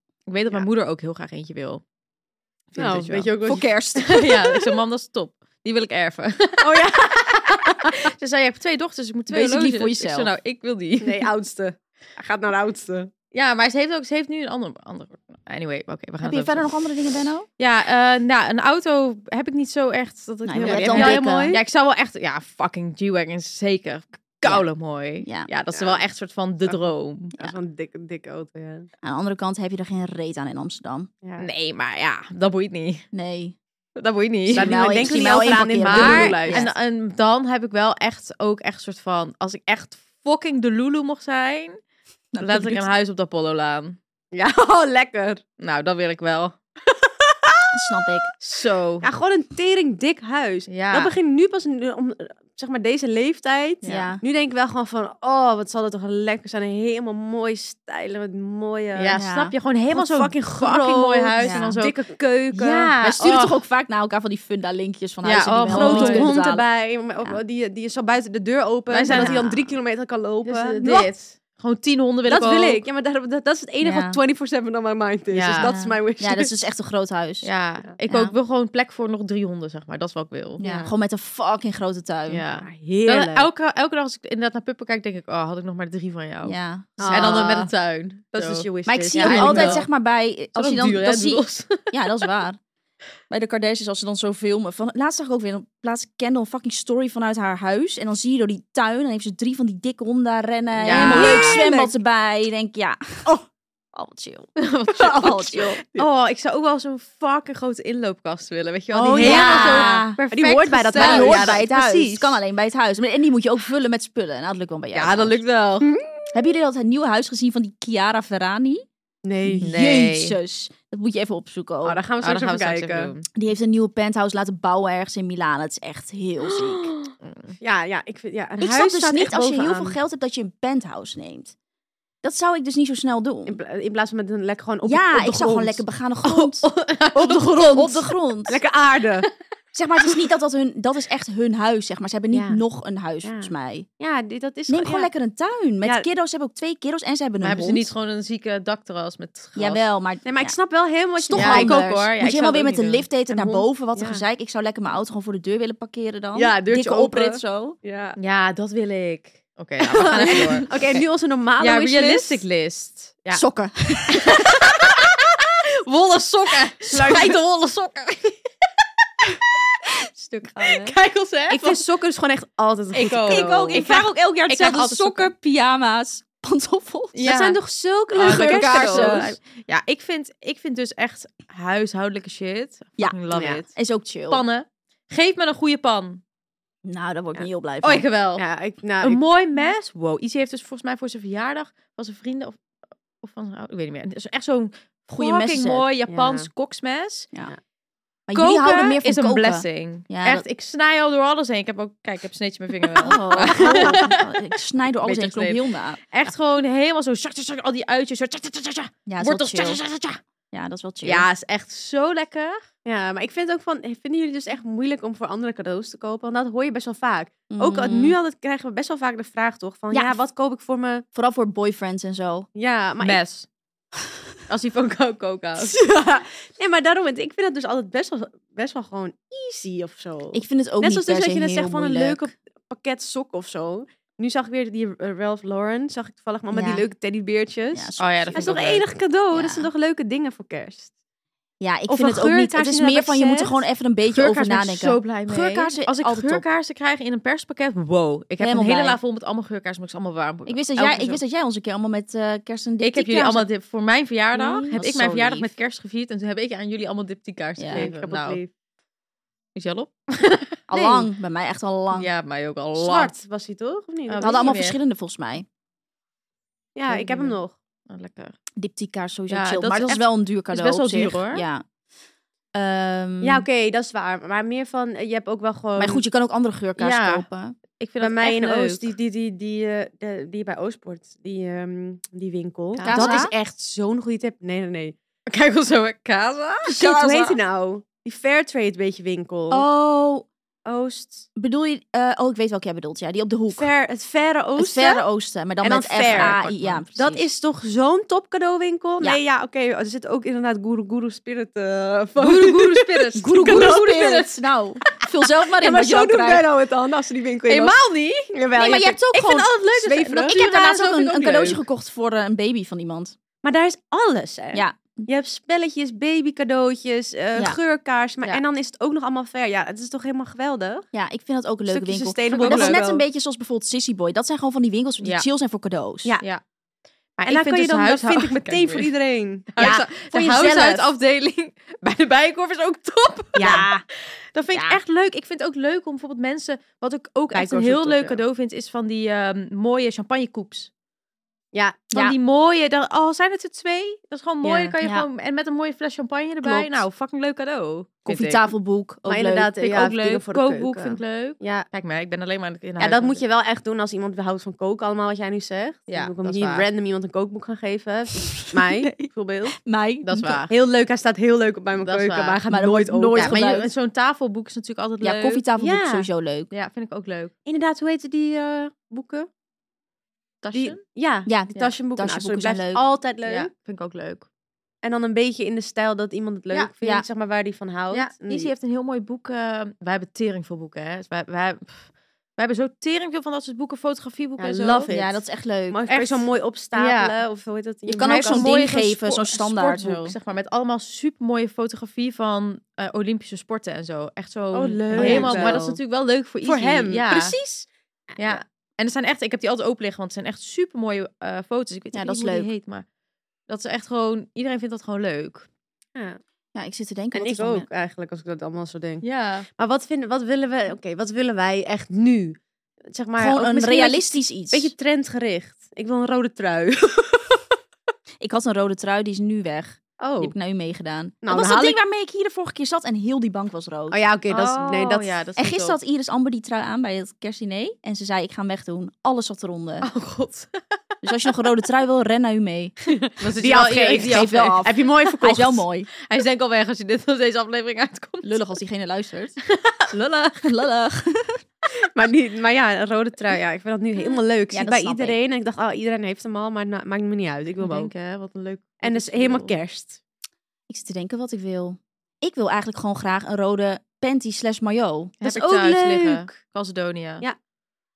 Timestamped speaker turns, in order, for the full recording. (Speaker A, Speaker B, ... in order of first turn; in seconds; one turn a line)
Speaker A: 0.3-1.8
Speaker A: 2.7-3.3
Speaker B: 2.8-3.7
Speaker C: 3.5-4.6
Speaker A: 4.0-11.3
Speaker B: 6.6-8.1
Speaker C: 9.3-10.3
Speaker B: 11.0-13.1
Speaker A: 13.3-16.7
Speaker C: 16.2-17.5
Speaker A: 17.6-27.4
Speaker C: 20.4-21.6
Speaker B: 20.6-21.6
Speaker B: 25.7-26.0
Speaker B: 27.4-28.9
Speaker C: 29.0-31.1
Speaker A: 31.4-33.1
Speaker C: 33.1-33.6
Speaker A: 34.0-41.8
Speaker C: 34.5-36.7
Speaker B: 34.5-36.7
Speaker C: 42.3-42.9
Speaker A: 42.4-44.0
Speaker B: 44.3-45.4
Speaker A: 45.6-46.6
Speaker B: 46.9-47.7
Speaker C: 47.7-48.3
Speaker A: 48.4-49.1
Speaker B: 49.0-59.2
Speaker A: 50.7-51.1
Speaker A: 53.8-54.1
Speaker C: 53.9-54.2
Speaker A: 59.0-62.0
Speaker C: 59.2-59.5
Speaker B: 59.9-63.0
Speaker C: 61.4-61.8
Speaker A: 62.5-63.6
Speaker C: 63.0-66.7
Speaker A: 65.2-66.3
Speaker B: 65.7-71.1
Speaker A: 68.9-69.4
Speaker C: 69.1-69.7
Speaker A: 70.5-72.8
Speaker B: 72.3-76.5
Speaker C: 73.8-74.2
Speaker A: 75.3-75.7
Speaker C: 75.6-77.5
Speaker A: 77.4-80.6
Speaker C: 78.1-78.3
Speaker B: 80.6-80.9
Speaker C: 80.6-82.4
Speaker A: 82.3-89.9
Speaker B: 82.5-83.5
Speaker C: 86.5-87.5
Speaker B: 87.0-87.7
Speaker B: 88.3-89.8
Speaker C: 88.9-92.6
Speaker A: 90.6-92.3
Speaker C: 93.3-103.4
Speaker A: 100.8-101.6
Speaker B: 100.8-102.0
Speaker C: 103.9-105.8
Speaker A: 104.6-111.6
Speaker B: 108.9-112.4
Speaker C: 109.1-110.2
Speaker C: 110.9-115.4
Speaker A: 114.9-115.9
Speaker C: 116.3-118.8
Speaker B: 119.2-119.7
Speaker C: 119.5-122.0
Speaker A: 119.6-120.4
Speaker B: 121.8-123.1
Speaker A: 122.2-123.3
Speaker C: 123.3-126.9
Speaker A: 127.2-127.5
Speaker B: 127.6-130.0
Speaker C: 128.6-131.5
Speaker C: 132.2-133.6
Speaker B: 133.5-135.8
Speaker C: 134.8-138.6
Speaker A: 136.2-138.0
Speaker B: 137.2-137.9
Speaker B: 138.5-139.3
Speaker C: 139.8-143.9
Speaker B: 142.3-142.6
Speaker B: 143.2-145.1
Speaker C: 144.7-147.9
Speaker A: 147.4-149.9
Speaker C: 149.6-150.6
Speaker B: 150.2-151.8
Speaker C: 151.2-157.8
Speaker A: 151.3-153.1
Speaker B: 153.3-154.2
Speaker B: 156.3-158.2
Speaker A: 158.2-161.1
Speaker B: 159.8-162.4
Speaker A: 161.6-163.4
Speaker C: 163.3-164.5
Speaker A: 164.1-168.4
Speaker B: 166.9-167.4
Speaker C: 170.3-170.8
Speaker B: 170.4-170.9
Speaker A: 170.7-171.8
Speaker B: 171.5-175.2
Speaker A: 172.9-173.9
Speaker C: 173.2-177.2
Speaker A: 177.1-177.6
Speaker B: 177.2-179.3
Speaker A: 178.2-183.7
Speaker C: 178.2-179.3
Speaker B: 183.3-183.6
Speaker C: 183.7-184.4
Speaker A: 184.3-186.2
Speaker C: 186.8-188.1
Speaker A: 187.8-188.4
Speaker B: 188.4-189.2
Speaker A: 189.0-192.6
Speaker A: 193.2-197.3
Speaker C: 195.1-195.9
Speaker B: 196.1-196.5
Speaker C: 198.3-200.4
Speaker A: 198.3-204.4
Speaker C: 203.0-206.0
Speaker B: 203.4-204.1
Speaker A: 205.0-210.2
Speaker C: 209.1-209.8
Speaker C: 210.5-211.3
Speaker A: 211.0-212.6
Speaker B: 212.8-221.0
Speaker C: 217.5-218.2
Speaker C: 219.9-220.2
Speaker C: 221.1-222.5
Speaker B: 222.6-223.2
Speaker A: 223.0-223.5
Speaker A: 224.5-225.8
Speaker B: 225.6-240.9
Speaker C: 230.3-232.3
Speaker C: 236.5-236.8
Speaker C: 237.7-238.5
Speaker A: 238.0-238.8
Speaker C: 239.3-239.7
Speaker C: 241.6-246.4
Speaker B: 241.9-243.6
Speaker A: 244.1-251.2
Speaker C: 248.4-249.0
Speaker C: 250.5-253.5
Speaker A: 252.8-258.4
Speaker C: 254.3-255.5
Speaker C: 257.6-257.9
Speaker B: 257.7-258.5
Speaker A: 259.6-261.1
Speaker C: 260.7-262.1
Speaker A: 261.9-263.1
Speaker B: 262.8-264.6
Speaker A: 264.1-264.8
Speaker C: 264.2-265.5
Speaker B: 266.8-267.6
Speaker A: 266.9-267.4
Speaker A: 267.9-268.4
Speaker C: 268.6-271.6
Speaker A: 269.3-271.4
Speaker C: 272.5-273.4
Speaker B: 273.2-276.0
Speaker C: 275.8-277.6
Speaker A: 276.8-277.3
Speaker A: 277.8-278.9
Speaker B: 278.0-284.9
Speaker A: 282.8-283.2
Speaker C: 282.8-283.3
Speaker A: 285.3-287.0
Speaker B: 286.7-289.6
Speaker C: 286.8-287.4
Speaker C: 289.5-290.3
Speaker B: 290.6-291.3
Speaker C: 291.4-293.7
Speaker B: 293.6-295.1
Speaker C: 294.6-297.3
Speaker B: 295.6-296.4
Speaker A: 296.1-296.8
Speaker B: 297.0-304.3
Speaker A: 302.2-304.1
Speaker C: 303.2-306.5
Speaker B: 305.2-307.8
Speaker A: 307.5-308.3
Speaker B: 308.3-310.4
Speaker C: 308.6-313.1
Speaker A: 309.6-311.6
Speaker B: 313.4-320.9
Speaker C: 314.5-315.0
Speaker C: 320.9-326.2
Speaker B: 321.7-323.0
Speaker A: 322.3-322.8
Speaker A: 327.2-328.9
Speaker B: 327.2-330.9
Speaker A: 329.5-333.7
Speaker B: 333.4-333.7
Speaker C: 333.4-333.8
Speaker A: 334.3-340.7
Speaker C: 334.5-334.8
Speaker B: 337.3-338.2
Speaker B: 341.5-341.8
Speaker A: 341.9-348.4
Speaker B: 344.4-344.7
Speaker C: 344.8-345.1
Speaker C: 346.4-346.8
Speaker C: 348.1-349.5
Speaker B: 349.1-351.7
Speaker A: 349.6-353.2
Speaker B: 352.8-359.6
Speaker A: 355.9-356.7
Speaker C: 358.3-359.1
Speaker C: 359.6-360.4
Speaker A: 360.1-360.5
Speaker B: 360.5-363.6
Speaker A: 361.8-362.4
Speaker C: 362.5-363.7
Speaker A: 363.2-365.4
Speaker C: 365.0-366.5
Speaker B: 365.6-366.1
Speaker A: 366.5-367.3
Speaker B: 367.5-369.3
Speaker A: 370.4-370.8
Speaker B: 370.5-373.5
Speaker C: 371.3-372.8
Speaker A: 373.2-374.3
Speaker B: 374.8-378.5
Speaker C: 376.8-377.1
Speaker A: 377.9-385.0
Speaker B: 384.4-385.1
Speaker C: 384.9-385.8
Speaker B: 385.7-388.5
Speaker A: 385.9-387.1
Speaker C: 387.9-390.1
Speaker A: 388.1-397.4
Speaker B: 394.5-395.8
Speaker C: 394.9-395.6
Speaker B: 396.4-398.4
Speaker A: 398.2-402.9
Speaker C: 401.9-402.5
Speaker A: 403.5-405.5
Speaker B: 405.9-406.2
Speaker C: 406.6-407.7
Speaker B: 407.1-409.0
Speaker A: 409.0-409.5
Speaker B: 409.6-417.5
Speaker C: 413.2-414.7
Speaker C: 418.2-424.0
Speaker B: 420.0-420.3
Speaker B: 421.2-421.8
Speaker B: 423.9-425.2
Speaker A: 424.3-425.8
Speaker C: 425.4-429.9
Speaker A: 429.8-430.6
Speaker C: 431.0-432.7
Speaker A: 433.1-434.7
Speaker B: 433.4-435.6
Speaker C: 433.9-435.9
Speaker A: 436.1-438.4
Speaker C: 438.2-439.4
Speaker A: 439.6-440.5
Speaker C: 440.4-441.4
Speaker B: 441.9-447.9
Speaker C: 444.5-445.2
Speaker A: 447.6-449.5
Speaker B: 448.8-450.0
Speaker C: 450.7-455.2
Speaker A: 455.2-457.2
Speaker B: 455.2-456.3